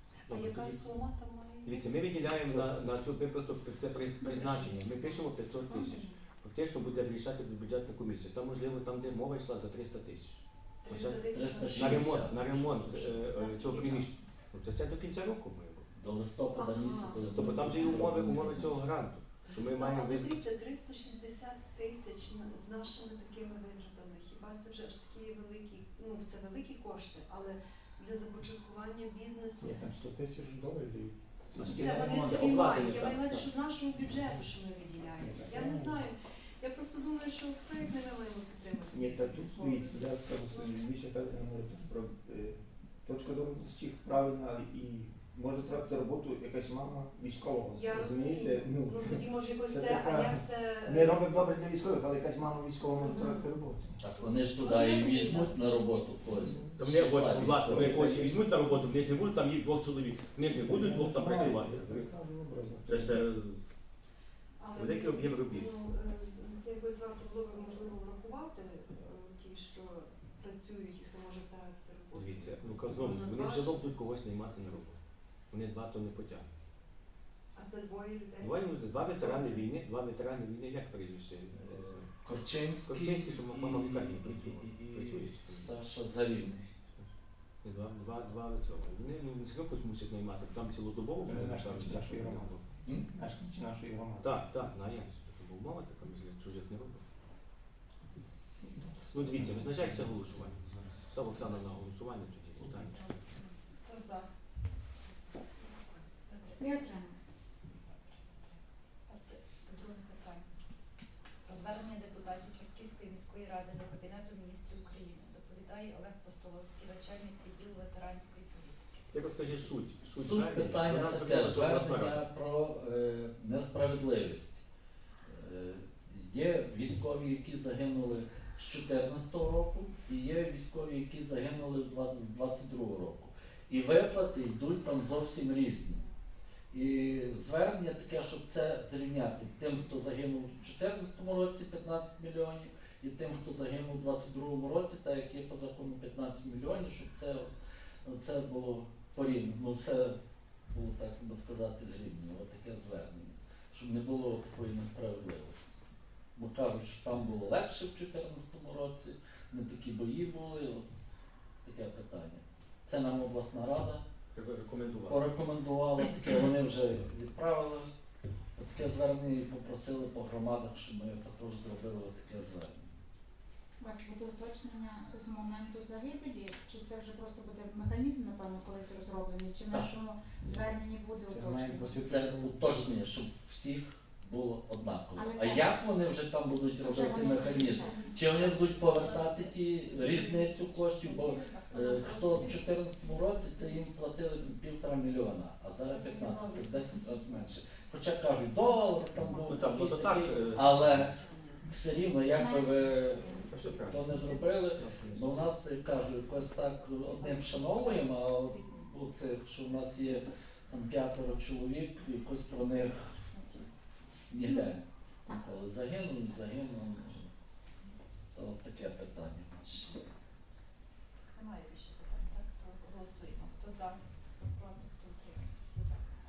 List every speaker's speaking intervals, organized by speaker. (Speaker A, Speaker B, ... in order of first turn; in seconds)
Speaker A: 0.3-2.7, 4.2-5.2, 10.8-12.3, 13.2-14.2, 16.5-18.1, 19.5-29.9, 31.6-40.8, 47.7-51.4, 53.0-53.4, 64.6-73.8, 77.5-79.7, 187.5-193.8, 195.9-196.8, 200.5-201.7, 207.2-208.1
Speaker B: 0.3-0.8, 1.6-15.9, 17.2-20.4, 31.6-33.5, 56.8-62.0, 62.9-63.6, 64.7-65.7, 72.1-75.0, 75.5-76.5, 78.4-82.1, 82.8-85.7, 87.6-92.6, 94.2-97.0, 99.1-103.0, 119.1-122.2, 164.3-165.2, 199.5-200.7, 203.4-204.1, 204.8-205.4
Speaker C: 5.7-6.1, 54.6-55.5, 106.6-107.3, 173.8-182.0, 185.1-185.7, 186.8-188.1, 202.3-202.8, 214.4-214.7
Speaker D: 11.3-13.2, 15.9-18.8, 54.0-58.4, 81.5-86.7, 120.1-124.6, 125.2-136.0, 136.7-147.5, 148.0-150.2, 150.7-155.7, 156.3-160.9, 161.6-164.0, 165.1-167.9, 168.6-173.0, 182.0-213.2, 214.3-217.3, 218.3-220.0
Speaker E: 29.6-33.0, 35.2-36.1, 38.9-54.0, 56.3-56.8, 60.5-63.3, 91.2-94.4, 98.6-101.5, 181.3-182.9
Speaker F: 102.9-104.3, 105.0-106.8, 107.9-110.5, 111.4-118.8, 188.2-188.6, 221.3-226.1